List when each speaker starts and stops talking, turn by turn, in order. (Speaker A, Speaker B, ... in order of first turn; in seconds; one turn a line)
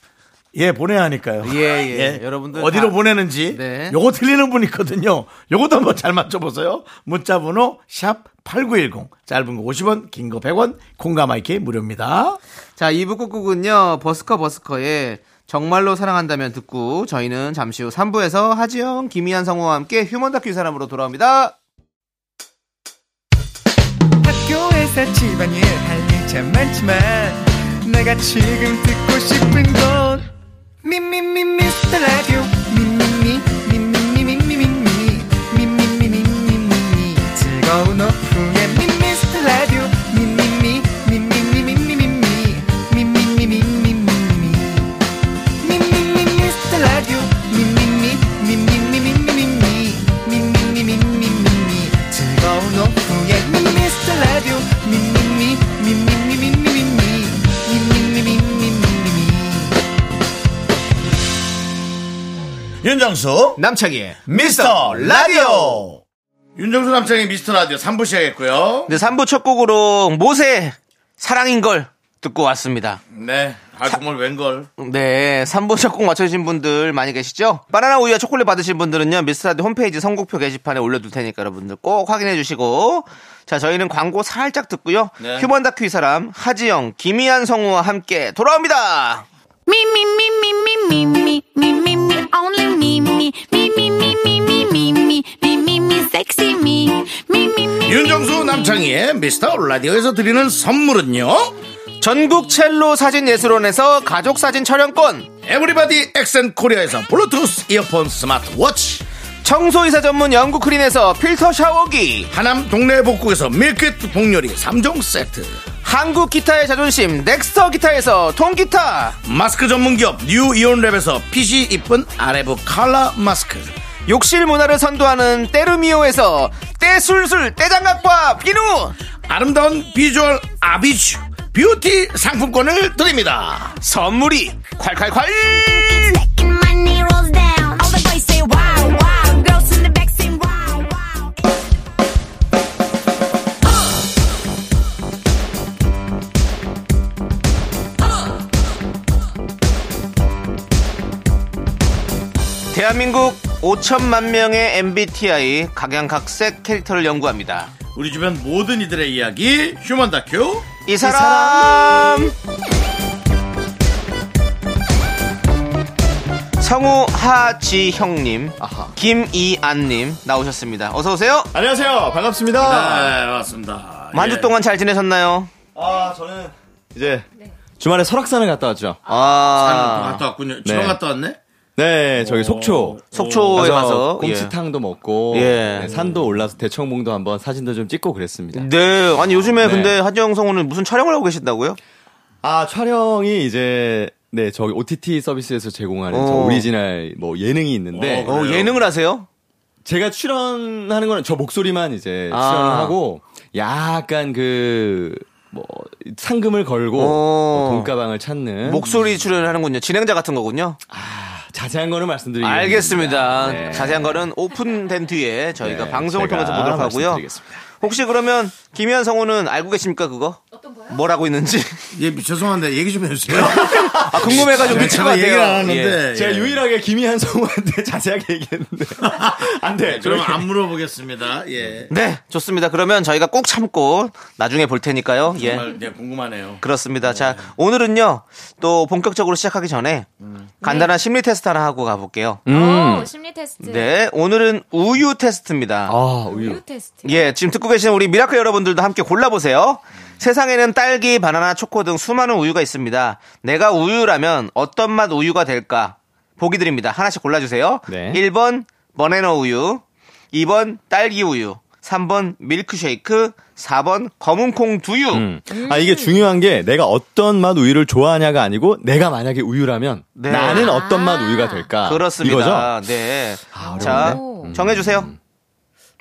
Speaker A: 0.5-12.4
Speaker B: 1.4-4.0
Speaker B: 12.8-21.5
Speaker C: 24.2-30.3
Speaker C: 30.8-44.9
Speaker C: 45.6-59.8
Speaker A: 62.8-63.6
Speaker B: 63.6-65.8
Speaker A: 64.3-66.0
Speaker A: 66.5-68.9
Speaker B: 68.9-73.0
Speaker A: 73.1-74.7
Speaker B: 74.8-89.2
Speaker A: 85.2-85.5
Speaker D: 89.7-98.7
Speaker A: 97.8-101.5
Speaker B: 102.0-105.3
Speaker A: 105.4-109.0
Speaker B: 109.4-112.3
Speaker A: 112.3-115.6
Speaker B: 115.8-119.2
Speaker A: 119.2-123.7
Speaker B: 124.1-128.9
Speaker A: 129.3-133.8
Speaker B: 133.8-136.2
Speaker D: 135.5-141.6
Speaker B: 152.7-157.7
Speaker A: 157.9-160.7
Speaker B: 160.8-162.3
Speaker E: 161.0-162.2
Speaker B: 166.6-171.5
Speaker E: 168.6-168.9
Speaker E: 171.5-173.2
Speaker A: 172.6-174.5
Speaker B: 174.1-175.5
Speaker E: 175.7-179.0
Speaker B: 179.1-180.2
Speaker A: 179.4-181.4
Speaker E: 180.6-181.0
Speaker E: 181.8-188.7
Speaker A: 182.2-183.6
Speaker B: 183.1-184.5
Speaker B: 185.3-185.9
Speaker B: 188.5-191.8
Speaker E: 189.6-189.9
Speaker E: 192.4-198.3
Speaker B: 196.1-196.7
Speaker A: 197.9-198.8
Speaker B: 198.2-199.3
Speaker E: 199.8-209.2
Speaker B: 202.3-203.0
Speaker B: 206.9-207.9
Speaker B: 208.6-210.8
Speaker E: 210.9-214.3
Speaker B: 212.4-217.2
Speaker E: 215.6-217.6
Speaker B: 217.8-221.8
Speaker F: 220.5-221.0
Speaker A: 221.9-226.6
Speaker E: 223.5-225.0
Speaker B: 223.6-226.0
Speaker E: 226.1-230.5
Speaker A: 229.1-231.9
Speaker B: 231.9-235.7
Speaker A: 235.3-236.6
Speaker B: 236.6-240.1
Speaker B: 240.6-242.4
Speaker F: 240.6-240.9
Speaker E: 242.5-243.1
Speaker F: 242.5-243.9
Speaker B: 243.6-245.9
Speaker E: 245.9-246.6
Speaker F: 246.3-247.3
Speaker B: 247.0-265.2
Speaker E: 257.9-258.2
Speaker E: 265.1-272.7
Speaker F: 265.5-266.3
Speaker B: 270.2-270.8
Speaker F: 270.3-271.8
Speaker B: 271.8-275.1
Speaker E: 273.5-275.1
Speaker F: 273.6-274.5